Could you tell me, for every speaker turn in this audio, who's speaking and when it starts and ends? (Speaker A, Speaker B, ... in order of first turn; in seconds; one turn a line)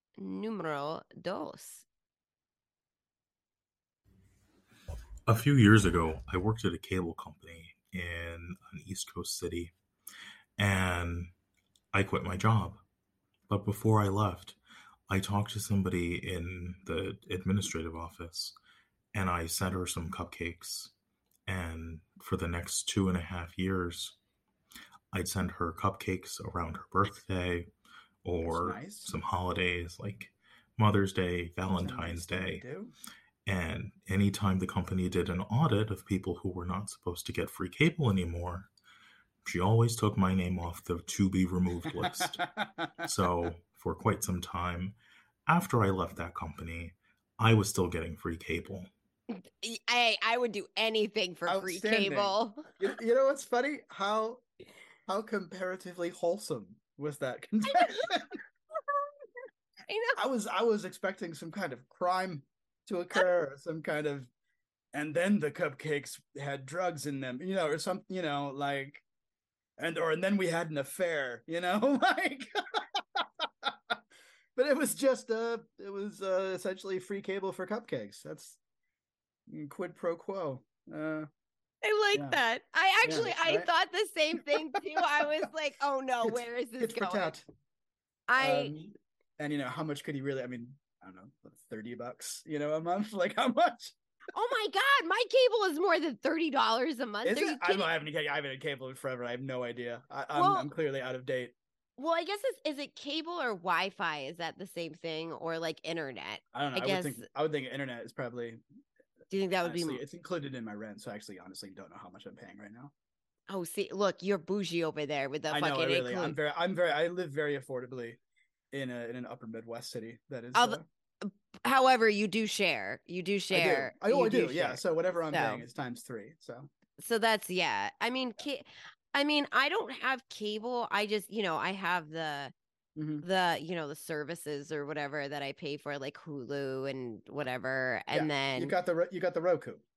Speaker A: 0.2-1.9
Speaker B: 5.3-9.8
Speaker B: 10.6-11.3
Speaker B: 11.9-12.8
Speaker B: 13.5-14.6
Speaker B: 15.1-18.6
Speaker B: 19.1-20.9
Speaker B: 21.5-24.2
Speaker B: 25.1-27.7
Speaker B: 28.2-32.7
Speaker C: 28.4-29.1
Speaker C: 31.7-32.9
Speaker B: 33.5-38.7
Speaker B: 39.4-42.4
Speaker C: 42.3-43.1
Speaker B: 43.0-45.0
Speaker B: 45.5-48.9
Speaker A: 49.3-52.7
Speaker C: 51.5-54.4
Speaker C: 55.1-58.4
Speaker A: 57.7-58.1
Speaker A: 58.8-59.1
Speaker A: 59.9-60.2
Speaker C: 60.2-64.3
Speaker C: 64.9-69.0
Speaker C: 69.8-74.0
Speaker C: 74.6-78.6
Speaker C: 79.5-81.3
Speaker A: 81.8-87.4
Speaker C: 82.1-82.4
Speaker C: 83.0-83.7
Speaker C: 86.2-87.5
Speaker A: 88.3-88.7
Speaker C: 88.4-93.9
Speaker A: 94.3-97.9
Speaker C: 97.2-101.5
Speaker A: 100.3-100.7
Speaker A: 102.0-107.2
Speaker C: 106.5-108.6
Speaker A: 109.3-110.0
Speaker C: 109.6-112.9
Speaker A: 113.5-116.4
Speaker C: 115.5-118.2
Speaker C: 118.7-120.9
Speaker A: 120.5-125.6
Speaker C: 123.5-126.7
Speaker A: 127.0-132.5
Speaker C: 133.0-133.3
Speaker A: 133.2-138.7
Speaker C: 138.1-139.8